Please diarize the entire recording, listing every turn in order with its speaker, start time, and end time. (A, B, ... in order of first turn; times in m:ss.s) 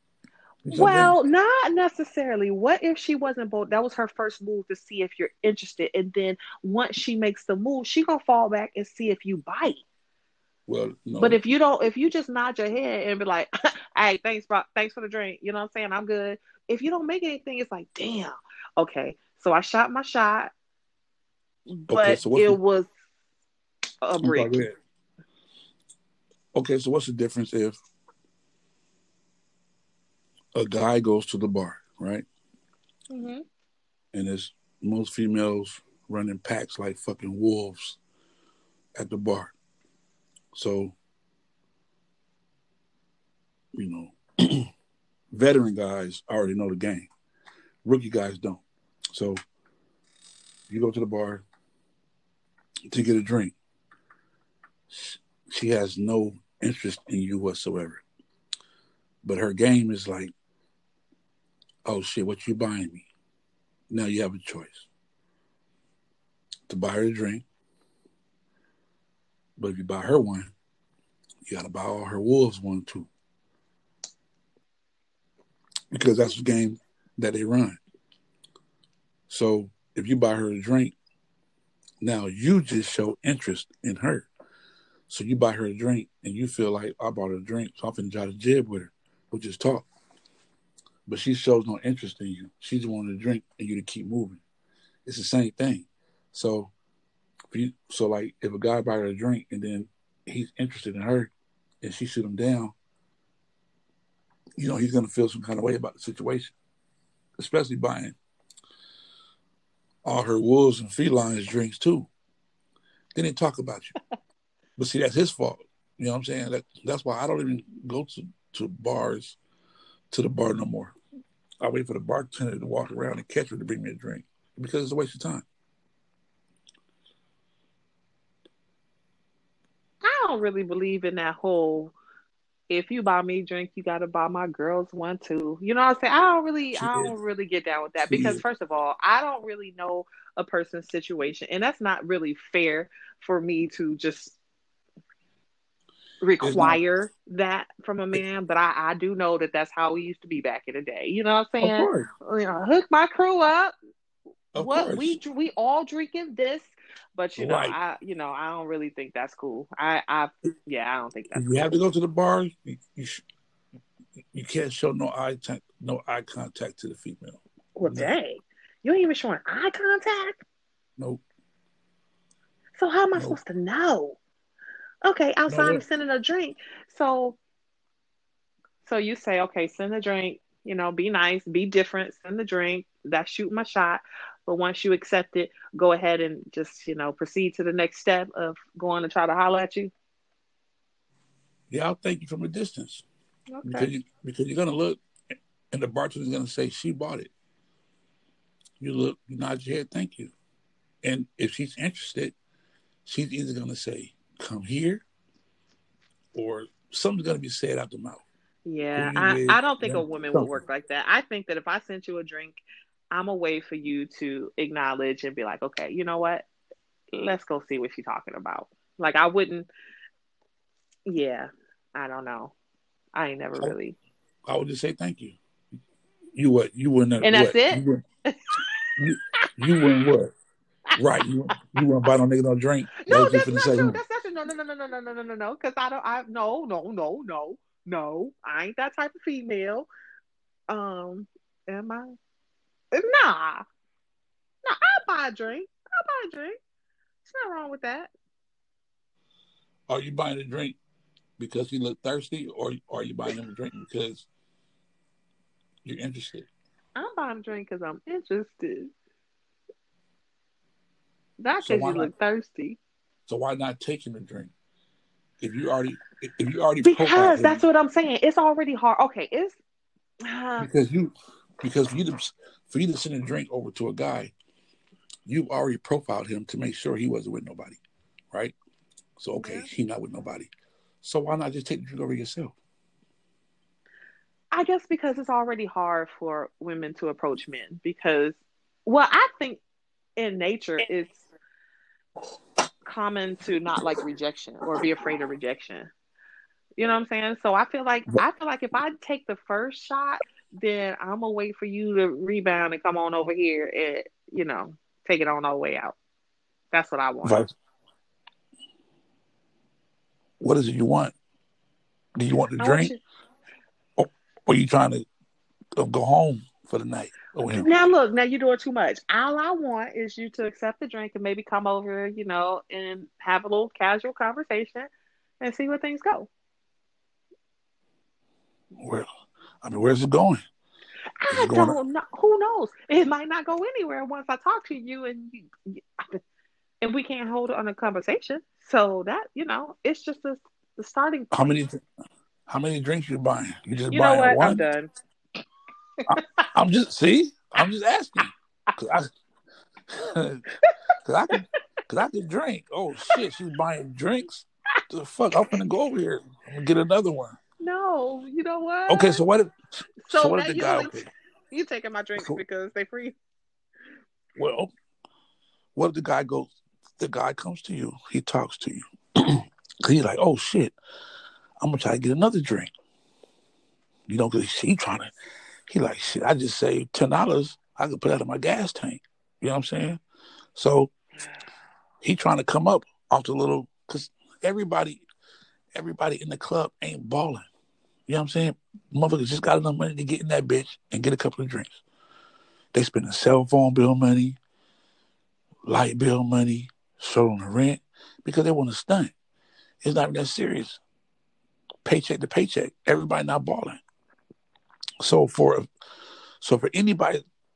0:00.7-0:01.2 A
0:00.7-0:09.8 B
0:10.7-0:11.4 A
0:11.2-0:20.5 B
0:21.7-0:22.9 B
0:21.9-0:22.6 A
0:24.0-0:24.6 B
0:24.2-0:24.8 A
0:26.5-0:27.8 A
0:30.6-0:32.3 A
0:33.1-0:33.4 B
0:34.1-0:38.0 A
0:39.0-0:39.5 A
0:40.5-0:41.0 A
0:43.8-0:44.7 A
0:45.3-0:47.1 A
0:47.8-0:49.4 A
0:50.7-0:51.4 A
0:52.9-0:53.6 A
0:54.9-0:58.0 A
0:59.2-1:00.3 A
1:01.8-1:03.1 A
1:03.9-1:04.9 A
1:06.7-1:07.4 A
1:09.6-1:10.5 A
1:11.5-1:13.1 A
1:15.9-1:17.8 A
1:19.3-1:21.0 A
1:22.0-1:24.3 A
1:25.1-1:29.9 A
1:31.1-1:34.4 A
1:35.1-1:36.7 A
1:37.5-1:42.8 A
1:44.6-1:46.6 A
1:47.4-1:48.2 A
1:50.0-1:52.1 A
1:53.2-1:53.9 A
1:54.8-1:59.4 A
2:00.1-2:01.0 A
2:01.6-2:05.5 A
2:10.0-2:12.0 B
2:12.7-2:24.4 B
2:16.7-2:17.1 A
2:18.1-2:18.4 A
2:26.2-2:33.8 B
2:26.4-2:26.8 A
2:31.6-2:32.1 A
2:34.5-2:35.2 A
2:34.6-2:41.7 B
2:37.4-2:37.8 A
2:41.3-2:43.2 A
2:44.3-2:48.1 A
2:47.8-2:50.4 B
2:51.0-2:51.2 A
2:52.8-2:54.2 B
2:55.0-2:57.4 B
2:55.5-2:55.8 A
2:58.8-3:09.9 B
3:11.7-3:13.1 A
3:13.5-3:13.9 B
3:13.6-3:15.0 A
3:15.7-3:17.3 A
3:18.8-3:20.3 A
3:21.0-3:22.4 A
3:23.1-3:25.0 A
3:26.3-3:28.2 A
3:28.7-3:36.5 B
3:28.9-3:30.6 A
3:37.1-3:39.7 B
3:41.1-3:42.5 B
3:43.2-3:44.0 B
3:44.5-3:45.4 A
3:46.4-3:48.0 A
3:47.2-3:49.9 B
3:49.0-3:50.4 A
3:51.0-3:54.0 A
3:53.0-3:59.9 B
4:00.7-4:02.2 B
4:02.9-4:03.6 B
4:04.6-4:06.6 B
4:07.2-4:08.1 B
4:09.9-4:10.8 A
4:11.4-4:14.3 A
4:15.8-4:16.5 A
4:17.0-4:18.9 B
4:21.4-4:22.8 B
4:21.6-4:22.1 A
4:23.3-4:24.5 A
4:25.4-4:27.6 A
4:26.8-4:29.6 B
4:30.2-4:30.7 B
4:30.6-4:34.3 A
4:35.3-4:37.8 A
4:39.2-4:40.5 A
4:39.4-4:39.7 B
4:41.0-4:42.6 A
4:44.5-4:49.6 B
4:50.2-4:51.2 B
4:52.9-4:55.9 B
4:56.8-5:06.0 B
5:06.7-5:07.5 B
5:07.2-5:07.5 A
5:10.4-5:11.2 A
5:12.2-5:12.9 A
5:12.6-5:13.0 B
5:14.0-5:15.1 A
5:15.8-5:17.7 A
5:17.5-5:24.9 B
5:25.4-5:26.3 B
5:28.8-5:29.1 A
5:29.6-5:30.4 A
5:31.2-5:36.2 B
5:31.3-5:31.8 A
5:36.8-5:41.6 B
5:41.3-5:41.8 A
5:42.5-5:44.6 A
5:43.9-5:44.9 B
5:46.1-5:49.1 A
5:46.2-5:46.4 B
5:49.9-5:50.4 A
5:51.0-5:57.4 A
5:57.6-5:59.2 B
5:58.9-5:59.6 A
6:00.0-6:01.0 B
6:00.1-6:01.1 A
6:01.5-6:03.2 B
6:04.4-6:04.7 A
6:05.8-6:10.8 A
6:11.6-6:12.7 A
6:14.1-6:15.1 A
6:15.7-6:20.0 A
6:20.6-6:20.9 A
6:22.0-6:25.0 A
6:25.8-6:27.5 A
6:28.1-6:31.8 A
6:32.7-6:34.4 A
6:35.7-6:39.1 A
6:39.8-6:40.8 A
6:41.8-6:43.8 A
6:45.0-6:45.7 A
6:46.4-6:47.2 A